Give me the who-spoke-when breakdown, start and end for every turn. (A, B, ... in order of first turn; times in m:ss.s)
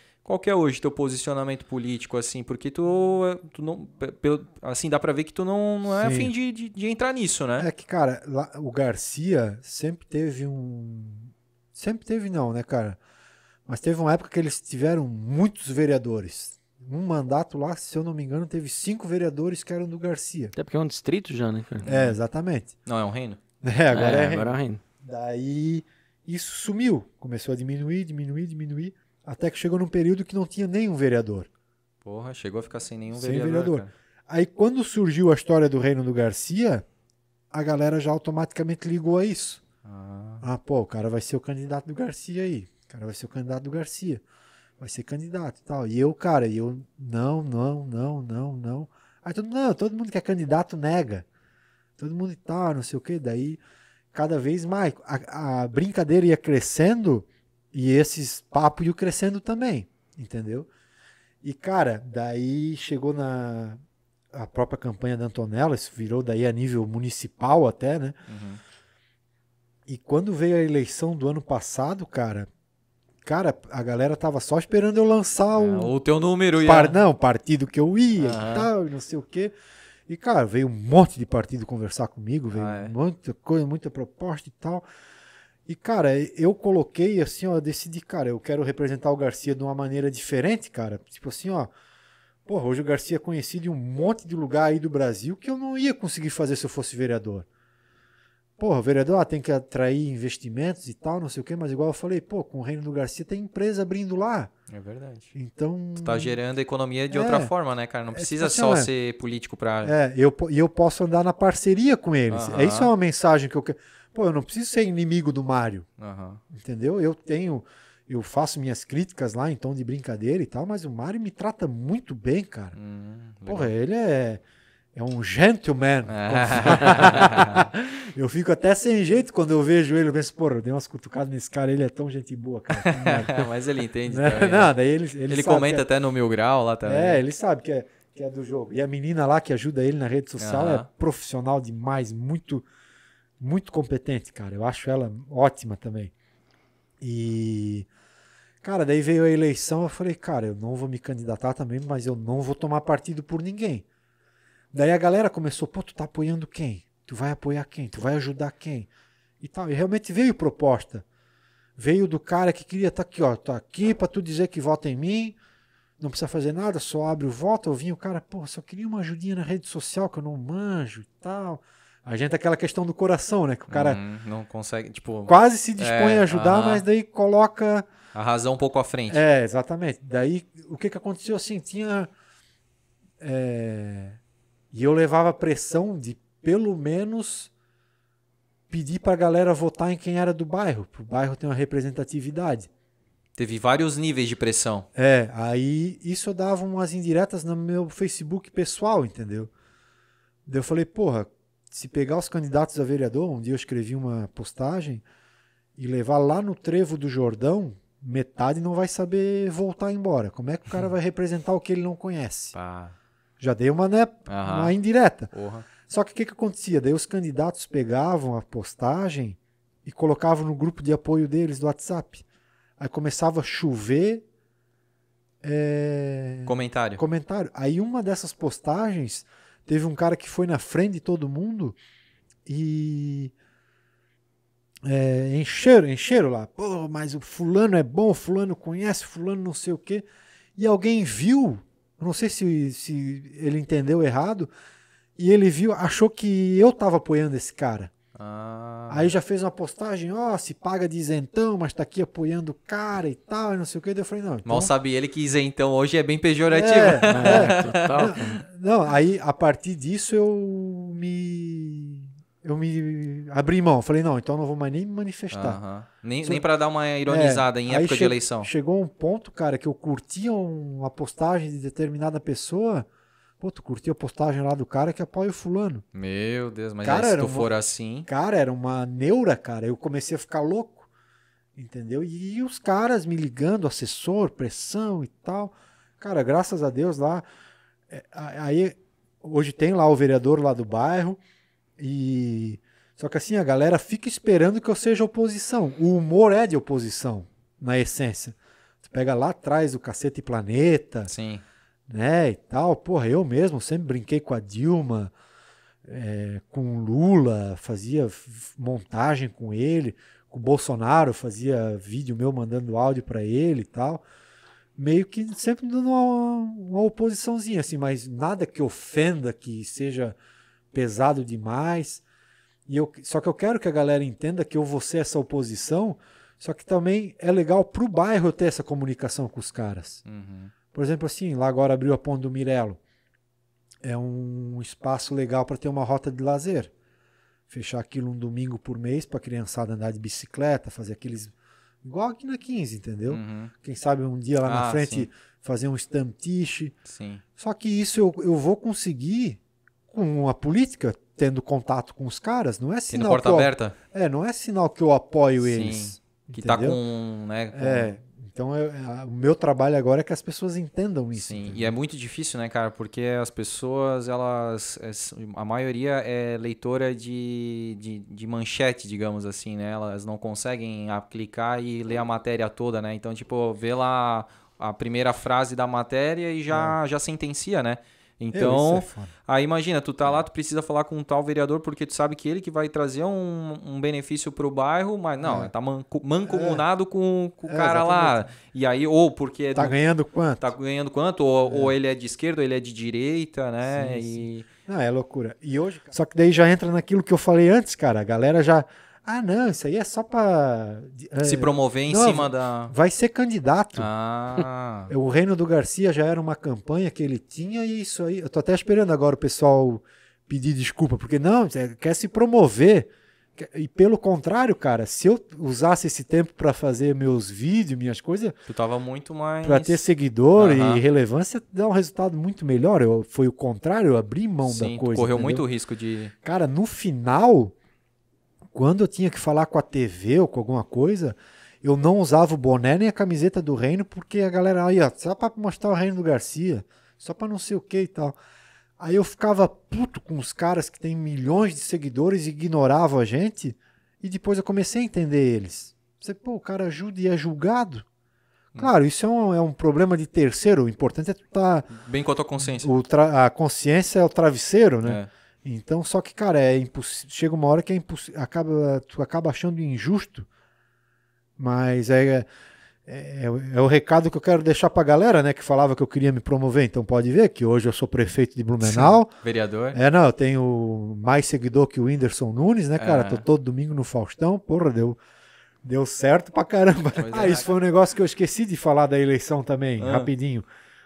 0:00.2-0:07.7 A
0:05.9-0:06.3 B
0:07.6-0:13.0 B
0:13.6-0:20.5 B
0:20.6-0:21.9 C
0:21.8-0:22.2 A
0:21.8-0:22.7 B
0:22.8-0:23.4 A
0:23.6-0:31.5 B
0:23.9-0:24.8 C
0:32.0-0:33.9 A
0:33.1-0:36.8 B
0:37.5-0:39.6 B
0:39.8-0:40.4 A
0:40.4-0:44.2 B
0:44.8-0:51.2 B
0:52.0-0:53.6 B
0:54.1-1:00.7 B
1:01.4-1:03.8 B
1:04.3-1:08.2 B
1:08.3-1:08.6 A
1:09.9-1:12.5 B
1:13.2-1:15.9 B
1:15.5-1:17.0 A
1:16.6-1:19.5 B
1:18.2-1:18.7 A
1:20.1-1:24.8 B
1:22.5-1:22.9 A
1:25.7-1:31.7 B
1:32.5-1:37.4 B
1:38.6-1:44.5 B
1:44.7-1:45.3 A
1:45.3-1:46.4 B
1:46.0-1:49.9 A
1:47.1-1:47.5 B
1:48.1-1:48.9 B
1:49.8-1:55.9 B
1:52.3-1:52.9 A
1:56.0-1:56.4 A
1:56.5-2:02.8 B
2:02.7-2:03.7 A
2:03.5-2:04.4 B
2:04.9-2:13.5 B
2:06.1-2:07.7 A
2:12.8-2:14.7 A
2:14.1-2:15.9 B
2:15.3-2:17.2 A
2:16.8-2:22.6 B
2:20.4-2:20.9 A
2:23.4-2:26.1 B
2:27.0-2:27.9 B
2:28.6-2:33.8 B
2:34.7-2:38.9 B
2:39.4-2:41.0 B
2:41.8-2:45.4 B
2:46.0-2:54.0 B
2:53.7-2:56.8 A
2:55.3-2:57.8 B
2:58.1-2:59.2 A
2:59.1-3:02.1 B
3:03.2-3:04.2 B
3:04.7-3:07.5 B
3:08.7-3:12.7 B
3:13.3-3:14.8 A
3:14.9-3:19.5 B
3:20.5-3:25.0 B
3:25.8-3:32.6 B
3:32.5-3:32.9 A
3:33.4-3:35.3 B
3:34.3-3:34.8 A
3:35.3-3:35.7 A
3:35.9-3:42.2 B
3:42.8-3:44.2 B
3:45.4-3:51.8 B
3:46.5-3:47.0 A
3:52.5-3:53.3 B
3:54.8-4:00.0 B
4:00.6-4:04.5 B
4:05.2-4:07.9 B
4:08.2-4:09.1 A
4:08.9-4:14.7 B
4:14.4-4:18.2 A
4:16.5-4:25.6 B
4:17.1-4:18.4 C
4:25.3-4:28.5 A
4:27.1-4:32.9 B
4:33.4-4:35.8 B
4:35.9-4:38.1 A
4:36.8-4:37.5 B
4:38.1-4:40.9 B
4:41.6-4:47.2 B
4:47.9-4:51.2 B
4:51.8-5:01.1 B
5:01.1-5:01.4 A
5:01.9-5:05.1 B
5:05.8-5:14.0 B
5:14.8-5:20.2 B
5:20.7-5:22.0 B
5:22.7-5:30.0 B
5:30.0-5:30.5 A
5:30.7-5:32.8 B
5:33.8-5:36.7 B
5:37.5-5:46.7 B
5:43.1-5:43.5 A
5:44.4-5:45.1 A
5:46.9-5:47.2 A
5:47.4-5:56.8 B
5:52.9-5:53.8 A
5:55.4-5:57.9 A
5:57.5-6:01.7 B
6:01.2-6:29.8 A
6:16.5-6:16.8 B
6:18.3-6:19.1 B
6:25.2-6:25.5 B
6:26.3-6:26.6 B
6:27.4-6:28.3 B
6:29.6-6:30.5 B
6:30.4-6:34.5 A
6:31.5-6:31.8 B
6:33.6-6:43.9 B
6:41.2-6:42.7 A
6:43.8-6:44.9 A
6:44.9-6:58.4 B
6:58.5-6:59.8 A
6:59.4-7:05.4 B
7:00.4-7:00.8 A
7:04.4-7:06.1 A
7:06.2-7:07.5 B
7:08.5-7:18.2 B
7:18.8-7:27.8 B
7:28.6-7:31.7 B
7:31.7-7:32.7 A
7:32.4-7:40.3 B
7:41.4-7:42.3 B
7:42.9-7:49.1 B
7:48.6-7:49.8 A
7:49.7-7:55.0 B
7:52.8-7:53.2 A
7:55.6-8:00.5 B
7:57.0-7:57.5 A
7:59.8-8:00.1 A